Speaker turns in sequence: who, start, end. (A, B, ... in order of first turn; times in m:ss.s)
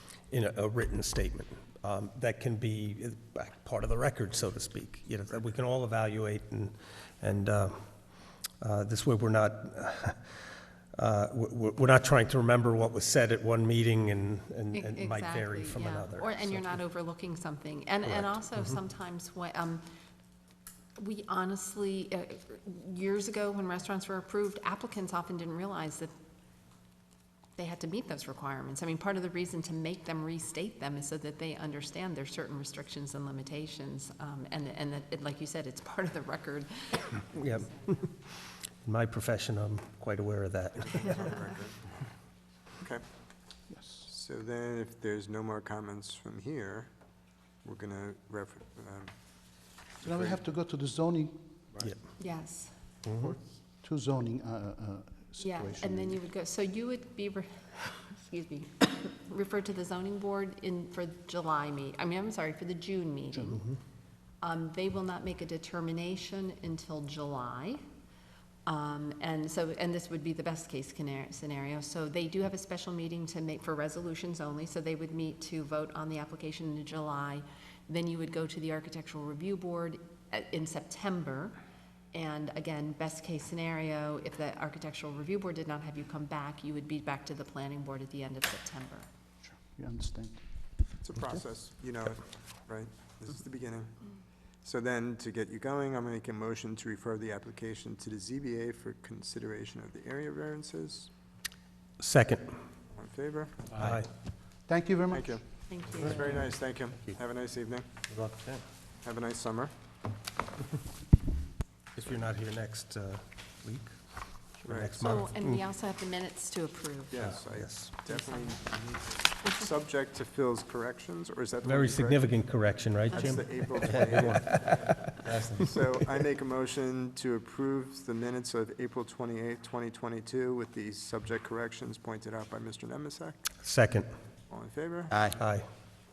0:00.3-0:16.6 A
0:14.7-0:19.8 B
0:21.0-0:26.1 B
0:27.6-0:38.0 B
0:37.3-0:41.3 A
0:40.9-0:42.2 C
0:42.7-0:43.0 C
0:43.7-0:44.1 D
0:44.0-0:49.4 C
0:50.0-0:51.5 D
0:52.2-0:52.7 B
0:53.0-0:53.3 A
0:53.1-0:56.2 D
0:55.4-1:03.7 B
1:04.4-1:07.8 B
1:08.6-1:21.6 B
1:22.1-1:29.1 B
1:29.4-1:30.4 D
1:31.0-1:41.1 C
1:42.0-1:42.6 A
1:42.9-1:43.8 C
1:43.8-1:44.1 A
1:44.6-1:45.4 D
1:45.1-1:47.9 C
1:45.7-1:46.5 B
1:49.0-1:49.7 C
1:51.9-1:55.6 A
1:54.6-1:55.2 C
1:55.0-1:57.3 B
1:57.1-2:13.6 C
1:57.3-1:57.9 A
1:58.1-1:58.6 B
2:01.6-2:05.4 A
2:03.1-2:03.4 B
2:13.6-2:14.1 A
2:14.5-2:15.3 C
2:15.3-2:15.7 A